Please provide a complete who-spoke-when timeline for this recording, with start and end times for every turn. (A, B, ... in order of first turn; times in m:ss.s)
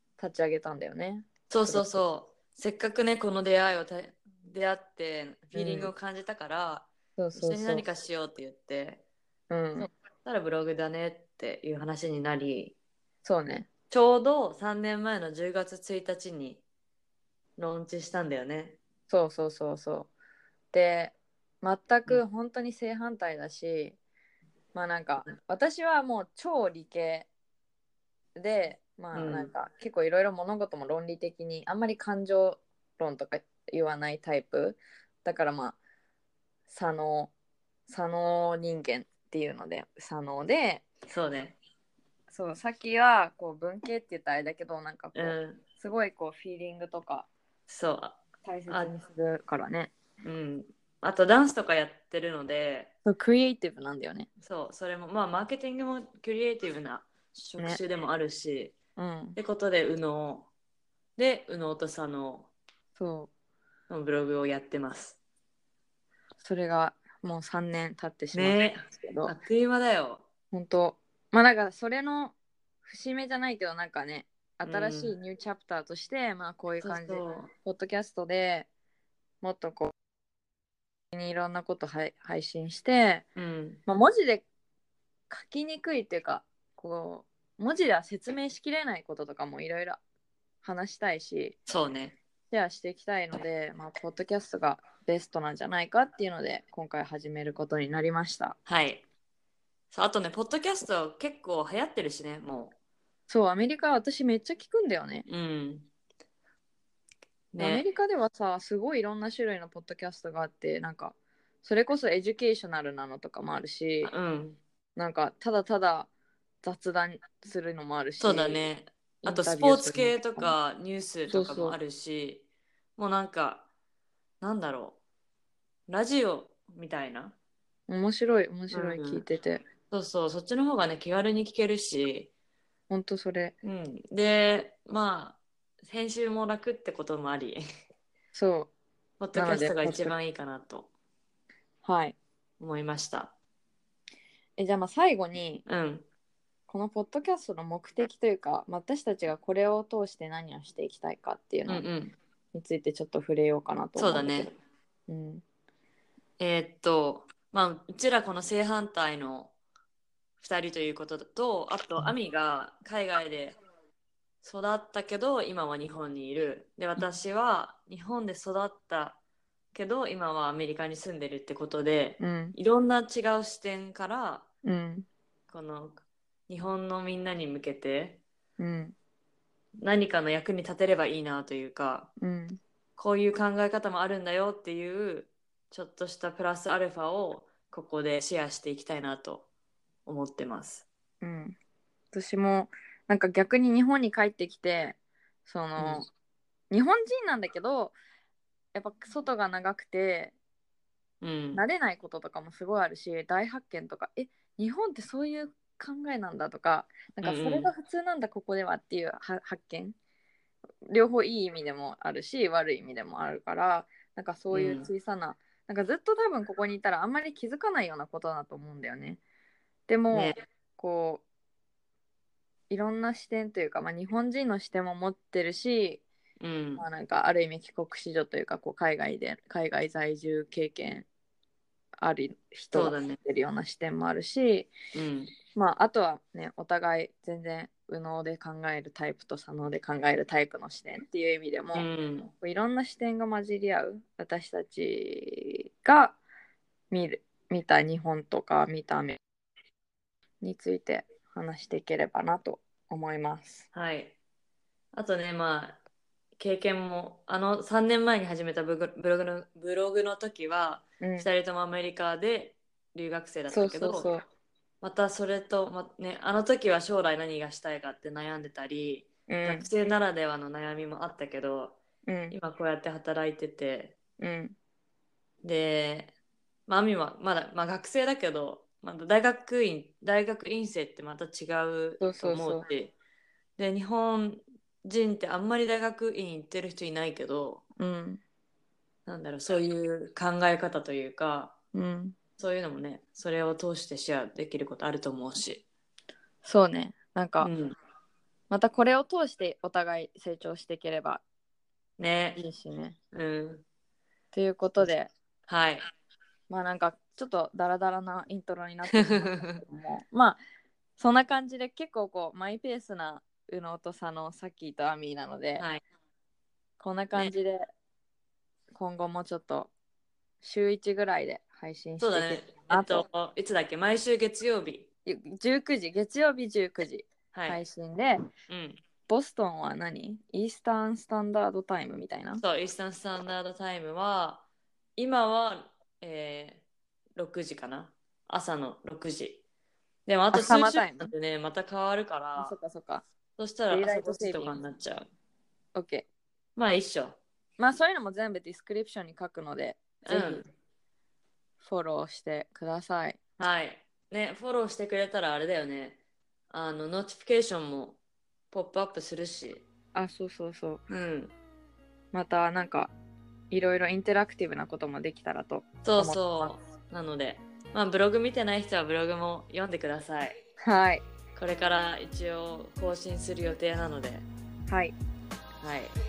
0:00.2-0:02.0 A
0:01.5-0:09.0 B
0:05.5-0:05.9 A
0:07.2-0:07.9 A
0:09.5-0:09.9 A
0:09.8-0:12.8 B
0:13.2-0:13.7 A
0:13.9-0:16.6 B
0:17.6-0:18.8 B
0:19.1-0:20.1 A
0:20.7-0:24.0 A
0:24.7-0:27.3 A
0:28.4-0:35.8 A
0:29.1-0:29.5 B
0:36.7-0:37.3 A
0:37.9-0:40.9 A
0:41.1-0:41.6 B
0:42.3-0:47.3 A
0:45.2-0:45.6 B
0:47.7-0:48.9 B
0:48.4-0:49.9 A
0:50.2-0:52.9 B
0:53.0-0:54.3 A
0:54.4-0:58.8 B
0:59.0-0:59.4 A
0:59.4-1:00.5 B
1:01.2-1:02.5 B
1:03.0-1:03.3 A
1:03.9-1:05.2 B
1:06.4-1:09.4 A
1:08.3-1:10.2 B
1:10.5-1:18.7 A
1:14.6-1:15.1 B
1:16.8-1:17.5 B
1:19.4-1:19.9 A
1:21.1-1:23.3 A
1:23.4-1:23.8 B
1:23.9-1:24.4 A
1:25.3-1:30.0 A
1:30.6-1:31.6 A
1:31.7-1:32.2 B
1:32.5-1:38.6 A
1:38.7-1:39.0 B
1:39.9-1:42.8 B
1:43.3-1:45.3 A
1:45.3-1:45.9 B
1:47.5-1:47.8 B
1:47.6-1:54.1 A
1:54.0-1:54.6 B
1:55.0-1:56.1 A
1:56.6-1:58.7 A
1:58.2-2:02.5 B
1:59.2-2:00.6 A
2:01.3-2:01.8 A
2:03.0-2:03.7 B
2:04.4-2:05.0 B
2:05.9-2:07.4 B
2:07.9-2:09.6 A
2:08.7-2:09.2 B
2:09.9-2:12.3 B
2:12.9-2:13.6 A
2:13.6-2:17.6 B
2:18.3-2:18.7 A
2:19.2-2:20.9 B
2:19.4-2:20.1 A
2:21.8-2:22.2 A
2:22.6-2:23.3 B
2:24.6-2:25.6 A
2:25.7-2:26.1 B
2:26.7-2:31.9 A
2:31.7-2:32.2 B
2:32.5-2:35.4 A
2:34.0-2:34.6 B
2:36.4-2:39.6 B
2:40.4-2:43.6 B
2:44.4-2:49.2 B
2:49.7-2:54.5 B
2:52.2-2:52.6 A
2:54.6-2:55.1 A
2:55.5-2:58.2 B
2:58.6-2:59.0 A
2:59.8-3:02.1 B
3:02.2-3:02.6 A
3:03.0-3:09.5 B
3:10.1-3:10.9 B
3:11.2-3:11.6 A
3:12.1-3:16.1 A
3:15.8-3:16.1 B
3:16.7-3:18.0 A
3:18.7-3:20.4 A
3:21.2-3:21.6 B
3:21.6-3:30.0 A
3:27.2-3:27.7 B
3:30.9-3:39.2 A
3:34.5-3:34.9 B
3:39.9-3:41.2 A
3:40.1-3:40.4 B
3:42.7-3:46.0 A
3:46.4-3:46.8 B
3:46.8-3:51.1 A
3:52.0-3:54.7 A
3:52.7-3:53.2 B
3:54.9-3:55.4 B
3:55.5-4:01.9 A
4:01.7-4:02.3 B
4:02.4-4:06.2 A
4:06.9-4:09.2 A
4:10.4-4:13.7 A
4:13.7-4:14.2 B
4:14.9-4:15.8 B
4:16.4-4:24.1 B
4:21.0-4:21.3 A
4:23.5-4:24.2 A
4:24.8-4:31.8 B
4:29.3-4:29.7 A
4:32.1-4:32.4 A
4:32.3-4:34.0 B
4:34.2-4:34.6 A
4:35.4-4:36.1 B
4:36.7-4:42.9 B
4:42.0-4:42.7 A
4:43.6-4:47.6 B
4:47.8-4:48.2 A
4:49.1-4:51.6 B
4:51.7-4:52.2 A
4:52.4-4:55.6 B
4:56.4-4:57.5 A
4:57.4-4:57.8 B
4:58.5-5:01.2 A
5:02.0-5:02.4 B
5:02.4-5:03.0 A
5:03.1-5:03.6 B
5:04.3-5:05.1 A
5:05.5-5:05.9 B
5:06.5-5:10.4 A
5:08.9-5:09.6 B
5:11.0-5:15.6 A
5:16.8-5:17.6 A
5:18.7-5:19.7 A
5:20.4-5:23.1 A
5:22.0-5:24.9 B
5:25.0-5:28.2 A
5:27.3-5:27.6 B
5:28.5-5:28.8 B
5:29.1-5:32.4 A
5:32.3-5:34.4 B
5:35.0-5:36.6 B
5:37.2-5:39.4 B
5:40.1-5:42.5 B
5:40.3-5:41.1 A
5:42.4-5:43.0 A
5:43.4-5:45.1 B
5:43.7-5:44.6 A
5:45.7-5:46.0 A
5:46.6-5:47.2 B
5:47.6-5:50.5 A
5:50.1-5:50.4 B
5:51.6-5:53.2 A
5:53.4-5:58.0 B
5:58.5-5:59.7 B
5:59.9-6:00.8 A
6:00.9-6:01.3 B
6:02.1-6:02.9 A
6:03.5-6:06.5 A
6:05.8-6:10.4 B
6:10.6-6:11.0 A
6:11.4-6:14.3 B
6:14.7-6:15.0 A
6:15.6-6:16.0 B